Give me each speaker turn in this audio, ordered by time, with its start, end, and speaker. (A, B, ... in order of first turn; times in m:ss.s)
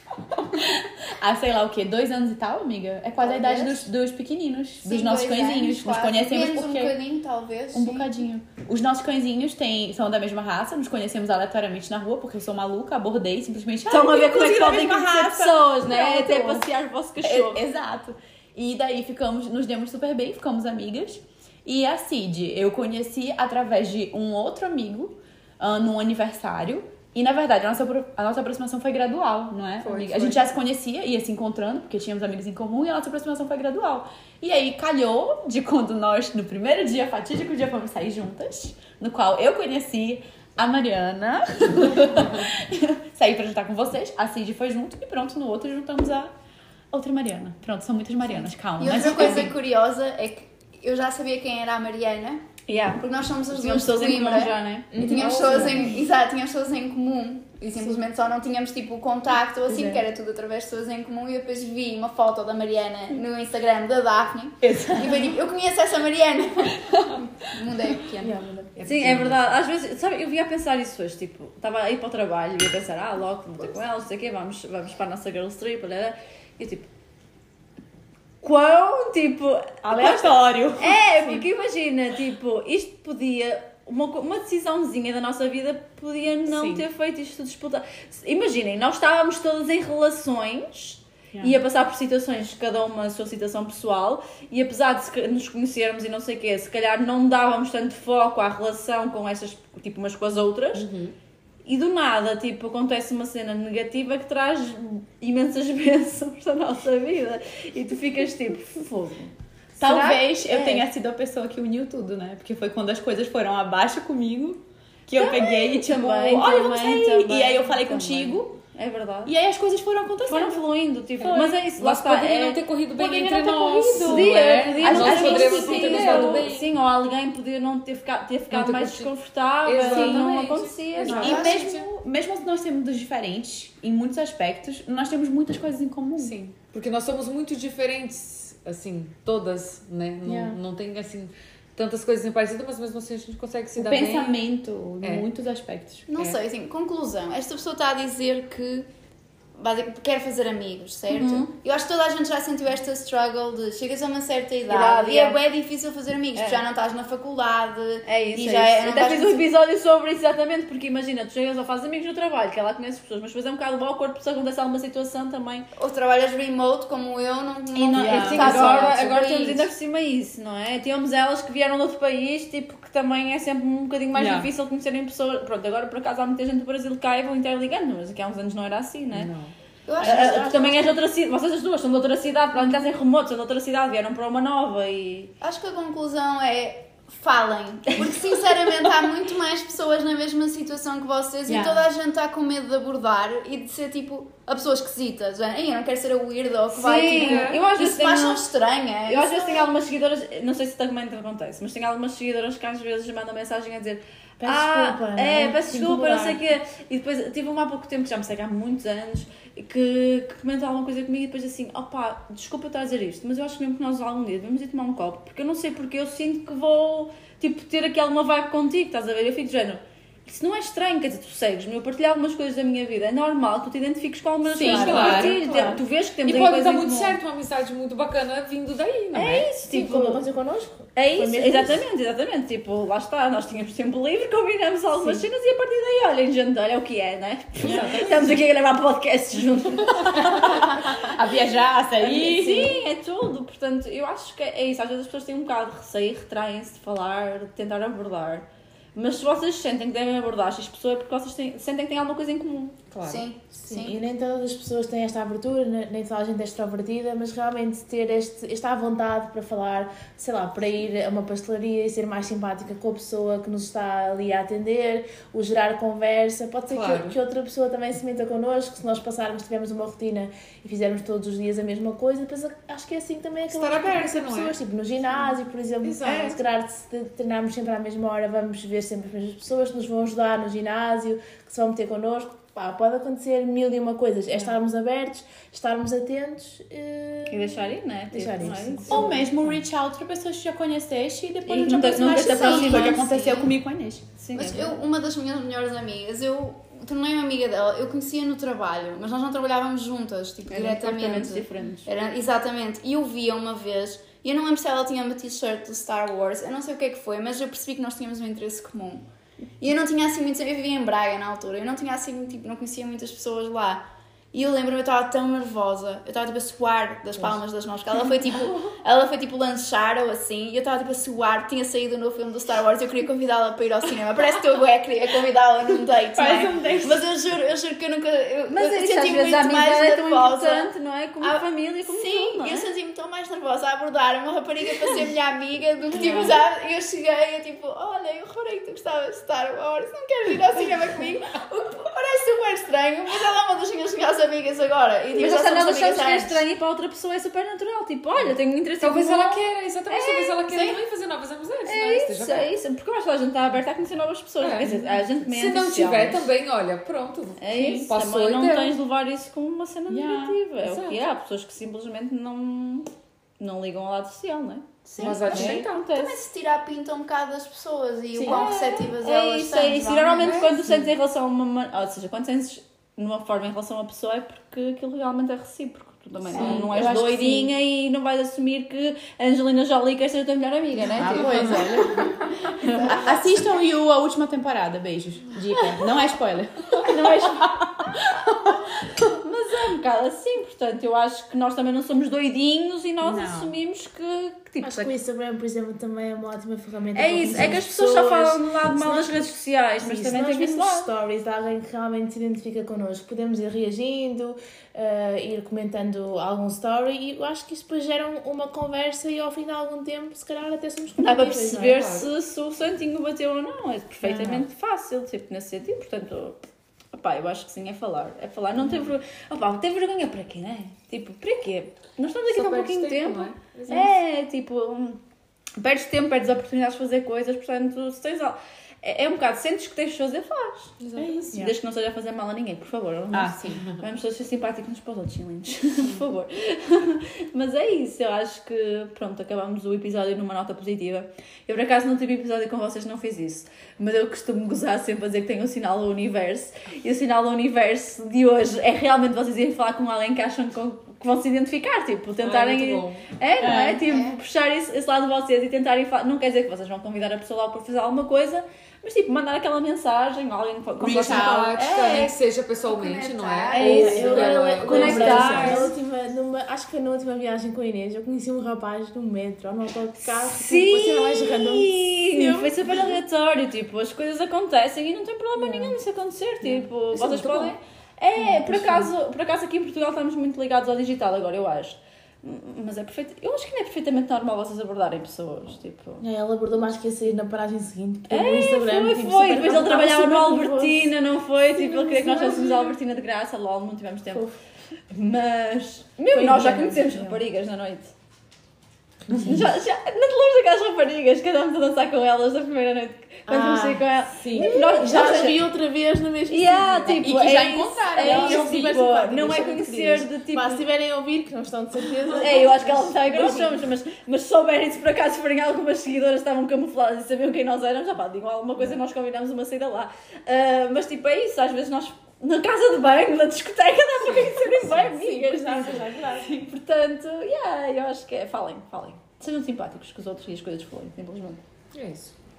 0:00.3-0:07.0 A
0:03.2-0:03.9 B
0:04.8-0:08.1 B
0:07.7-0:16.7 A
0:13.9-0:17.6 C
0:17.2-0:46.3 A
0:29.8-0:30.4 D
0:46.9-0:49.5 A
0:48.8-0:52.4 B
0:52.7-0:55.0 C
0:53.0-1:08.4 B
0:54.9-0:55.9 E
0:55.1-0:55.8 A
0:59.7-1:00.0 E
1:04.6-1:05.1 A
1:08.2-1:08.7 E
1:08.8-1:09.4 D
1:08.8-1:16.9 C
1:18.4-1:40.9 C
1:19.8-1:21.0 A
1:41.7-1:50.8 C
1:49.8-1:58.6 A
1:55.2-1:59.3 C
1:59.2-2:00.7 A
2:00.3-2:11.5 C
2:01.2-2:06.7 D
2:03.1-2:06.4 E
2:04.9-2:05.3 A
2:04.9-2:06.1 B
2:08.5-2:09.1 D
2:09.6-2:11.9 D
2:09.8-2:10.2 A
2:11.1-2:16.4 A
2:11.2-2:11.6 B
2:16.2-2:24.4 D
2:23.7-2:26.1 A
2:25.0-2:25.3 D
2:26.1-2:28.9 B
2:29.6-2:39.5 B
2:31.1-2:31.5 C
2:34.7-2:35.4 C
2:36.3-2:36.6 C
2:38.0-2:45.7 C
2:45.8-2:49.7 B
2:47.9-2:49.0 A
2:47.9-2:59.3 C
2:54.1-2:54.5 A
2:59.2-2:59.5 D
2:59.9-3:01.0 B
3:00.0-3:00.7 E
3:00.0-3:05.3 C
3:05.4-3:19.7 B
3:11.5-3:11.8 C
3:16.7-3:18.4 C
3:17.1-3:17.6 D
3:19.0-3:47.2 C
3:24.4-3:26.4 E
3:44.5-3:45.8 E
3:44.6-3:45.4 D
3:44.8-3:45.3 A
3:46.2-3:49.5 D
3:49.1-3:50.2 C
3:49.6-3:51.8 E
3:51.0-4:00.8 C
3:54.9-3:55.2 E
3:57.6-3:58.4 D
3:57.7-3:58.1 A
4:00.1-4:02.7 A
4:02.0-4:12.8 C
4:12.9-4:13.2 D
4:13.0-4:14.0 B
4:13.5-4:49.3 E
4:26.7-4:27.2 D
4:33.5-4:34.6 D
4:35.8-4:36.4 D
4:47.3-4:49.1 C
4:48.9-4:54.1 A
4:51.4-4:53.0 C
4:51.9-4:53.6 B
4:54.2-4:54.7 C
4:54.3-5:09.0 B
5:00.5-5:01.9 C
5:09.6-5:46.4 B
5:26.2-5:27.0 A
5:26.4-5:26.8 E
5:28.5-5:32.7 C
5:45.2-5:50.5 C
5:48.8-5:52.5 D
5:50.5-5:50.8 B
5:51.7-5:56.3 C
5:54.4-5:58.7 D
5:57.4-6:06.2 C
5:59.9-6:00.4 A
6:00.6-6:01.0 D
6:05.0-6:10.6 B
6:05.0-6:05.7 D
6:08.2-6:23.0 C
6:10.2-6:10.5 D
6:16.3-6:17.0 A
6:16.4-6:17.4 B
6:21.0-6:22.1 A
6:21.0-6:22.1 E
6:22.7-6:23.3 B
6:22.8-6:27.6 A
6:25.5-6:25.8 C
6:26.8-6:27.6 C
6:29.0-6:35.0 C
6:33.0-6:33.6 A
6:34.6-6:51.8 E
6:37.0-6:40.9 C
6:51.0-6:56.4 C
6:51.6-6:52.1 D
6:54.0-6:54.4 E
6:56.9-7:05.0 C
7:02.3-7:04.0 D
7:05.6-7:42.1 C
7:10.8-7:11.2 D
7:11.0-7:11.5 E
7:13.1-7:13.6 A
7:32.2-7:33.0 D
7:33.4-7:33.8 A
7:33.8-7:34.2 B
7:40.8-7:41.6 A
7:40.9-7:45.7 D
7:42.6-7:44.7 B
7:43.5-7:53.0 E
7:43.6-7:45.7 C
7:44.9-7:45.5 A
7:50.1-8:06.0 C
7:55.4-7:55.8 D
7:56.9-7:57.5 D
7:58.2-7:58.9 E
8:06.0-8:10.9 E
8:08.1-8:14.3 C
8:11.6-8:12.7 E
8:14.9-8:17.9 C
8:16.1-8:17.2 E
8:19.1-8:19.5 E
8:19.1-8:19.4 A
8:19.2-8:25.5 C
8:23.3-8:33.6 E
8:26.3-8:30.7 C
8:27.0-8:29.0 A
8:32.1-8:51.4 C
8:44.1-8:46.5 E
8:51.7-8:52.1 D